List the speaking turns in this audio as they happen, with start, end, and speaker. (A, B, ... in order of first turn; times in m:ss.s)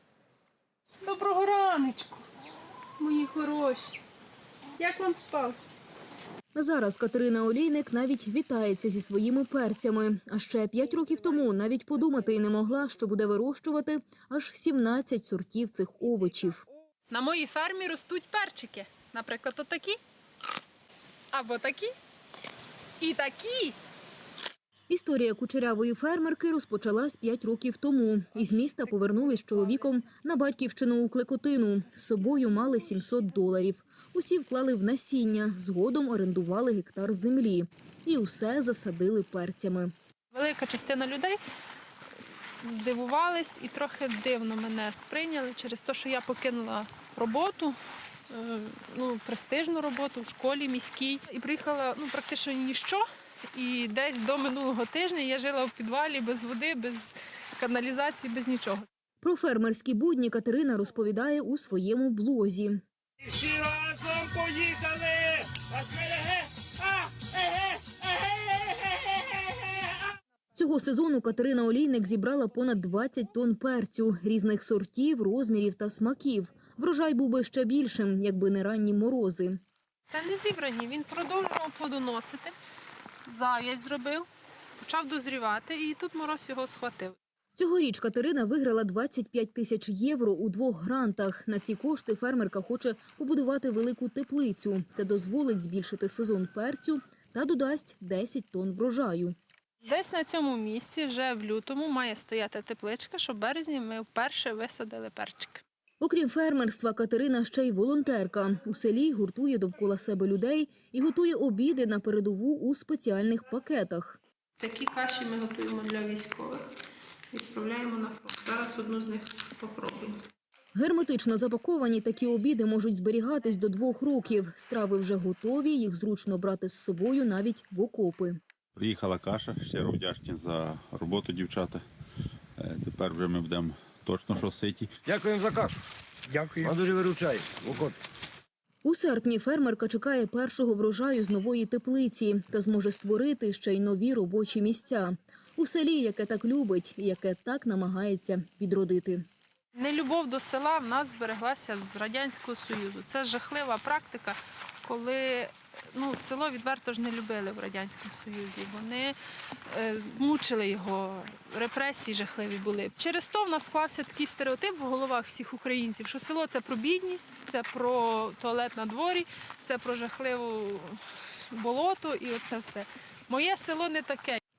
0:01.0-0:02.2 A
0:03.0-0:04.0 A
0:04.8-0:05.8 A
0:06.5-0:16.6 B
0:17.1-0:20.0 A
0:21.3-0:21.9 A
0:23.0-0:23.8 A
0:24.9-0:39.9 B
0:40.3-0:41.4 A
0:42.6-0:47.7 A
0:48.3-0:53.0 A
0:53.5-0:58.8 A
0:59.2-1:02.8 B
1:10.5-1:19.6 B
1:20.1-1:22.5 A
1:23.2-1:24.2 A
1:24.8-1:27.2 A
1:27.6-1:39.4 B
1:39.8-1:45.6 A
1:46.0-1:54.2 B
1:54.6-1:56.7 A
1:57.3-2:00.1 A
2:00.7-2:08.4 B
2:08.8-2:11.8 C
2:12.6-2:14.9 C
2:15.0-2:15.7 D
2:16.3-2:18.0 D
2:18.8-2:29.2 B
2:29.7-2:39.2 A
2:39.7-2:51.0 A
2:51.5-2:54.4 A